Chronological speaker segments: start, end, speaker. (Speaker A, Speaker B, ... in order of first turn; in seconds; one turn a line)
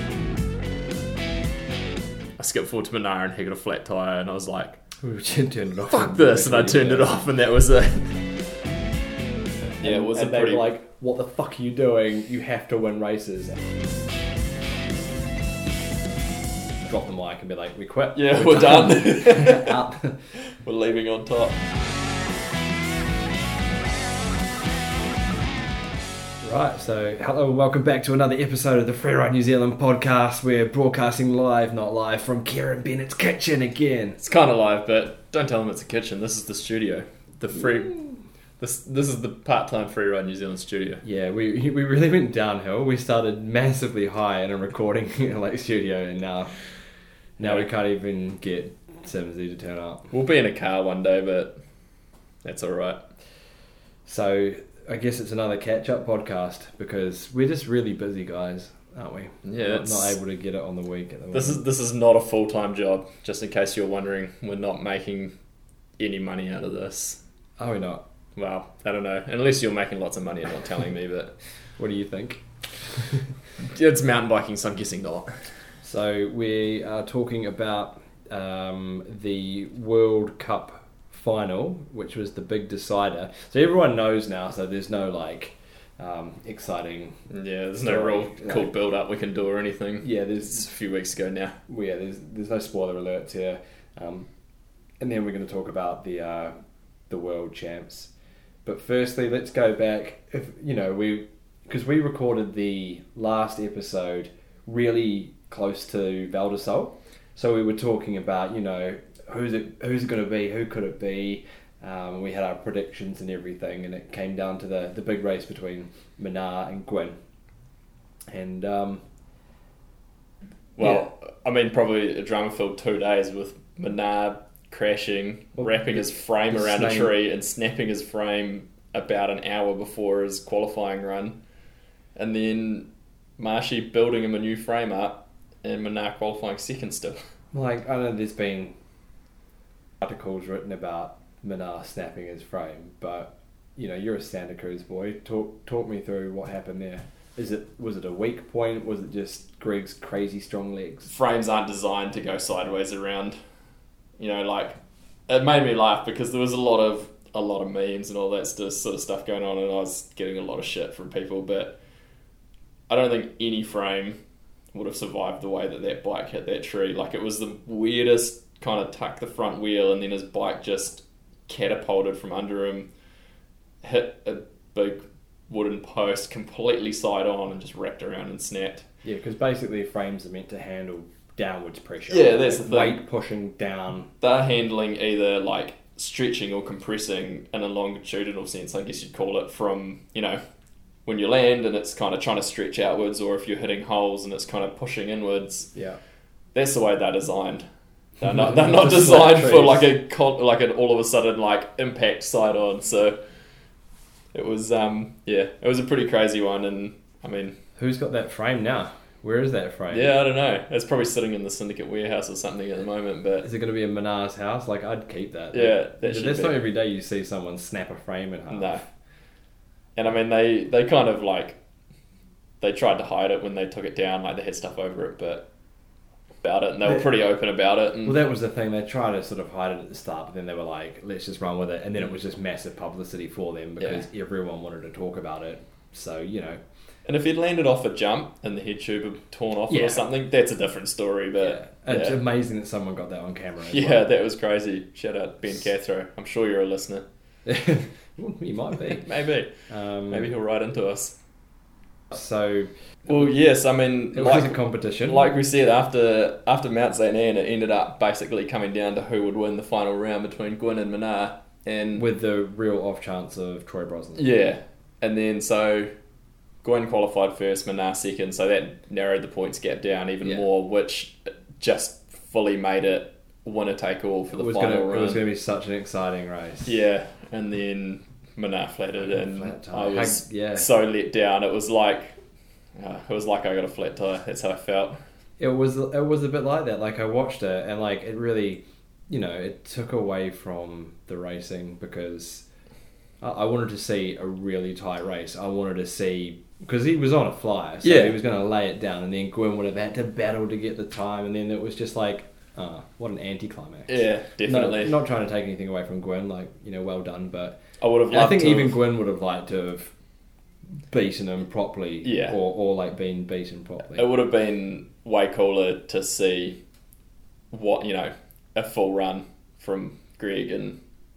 Speaker A: 2.4-4.8
Speaker B: 5.0-7.2
Speaker A: 5.9-8.2
Speaker B: 9.8-13.6
Speaker A: 9.8-10.7
Speaker B: 16.8-20.3
Speaker A: 18.1-19.8
Speaker A: 20.4-21.6
Speaker B: 26.4-34.2
Speaker A: 34.2-38.0
Speaker A: 38.6-41.0
Speaker B: 41.0-46.6
Speaker B: 47.4-50.1
Speaker A: 50.1-51.5
Speaker A: 52.4-53.0
Speaker B: 54.1-61.6
Speaker A: 59.5-60.2
Speaker A: 61.3-65.3
Speaker A: 66.0-67.2
Speaker B: 67.6-68.0
Speaker A: 68.4-71.3
Speaker B: 71.8-72.4
Speaker A: 73.6-75.3
Speaker B: 75.8-87.2
Speaker A: 87.3-91.5
Speaker B: 87.8-88.7
Speaker B: 90.0-90.6
Speaker B: 91.7-94.3
Speaker B: 95.0-96.5
Speaker B: 97.1-98.1
Speaker B: 98.7-117.2
Speaker B: 118.3-119.0
Speaker A: 120.8-131.4
Speaker B: 120.8-121.1
Speaker B: 125.6-127.1
Speaker A: 132.2-137.2
Speaker B: 137.5-138.8
Speaker B: 140.0-151.1
Speaker A: 151.1-153.4
Speaker A: 154.2-154.8
Speaker A: 155.3-161.8
Speaker A: 162.9-164.2
Speaker A: 164.7-172.9
Speaker A: 173.8-178.9
Speaker B: 179.0-184.1
Speaker A: 182.1-183.0
Speaker A: 184.2-190.4
Speaker A: 191.1-195.7
Speaker B: 195.7-196.0
Speaker A: 196.5-197.6
Speaker B: 198.2-199.9
Speaker A: 198.2-203.2
Speaker A: 204.3-207.6
Speaker B: 207.8-210.1
Speaker A: 209.9-213.4
Speaker B: 213.4-218.9
Speaker A: 215.5-216.6
Speaker A: 218.5-218.8
Speaker A: 220.0-221.6
Speaker A: 222.6-225.5
Speaker A: 226.4-228.2
Speaker B: 228.1-236.6
Speaker A: 233.8-234.0
Speaker A: 237.1-242.2
Speaker B: 239.7-240.1
Speaker B: 241.4-244.1
Speaker A: 243.7-247.1
Speaker B: 247.5-249.1
Speaker A: 248.8-249.5
Speaker B: 249.7-250.3
Speaker A: 250.1-251.2
Speaker B: 252.1-253.3
Speaker A: 253.1-262.1
Speaker B: 254.1-255.3
Speaker B: 261.9-264.3
Speaker A: 264.2-265.9
Speaker A: 266.6-275.2
Speaker B: 274.3-276.8
Speaker A: 276.7-282.1
Speaker B: 279.0-280.7
Speaker A: 282.8-285.0
Speaker B: 285.4-292.4
Speaker B: 293.2-307.6
Speaker A: 297.8-298.2
Speaker A: 303.9-305.0
Speaker A: 307.8-308.8
Speaker B: 308.1-309.9
Speaker B: 310.9-314.1
Speaker A: 312.0-312.4
Speaker A: 314.0-316.6
Speaker A: 317.5-320.8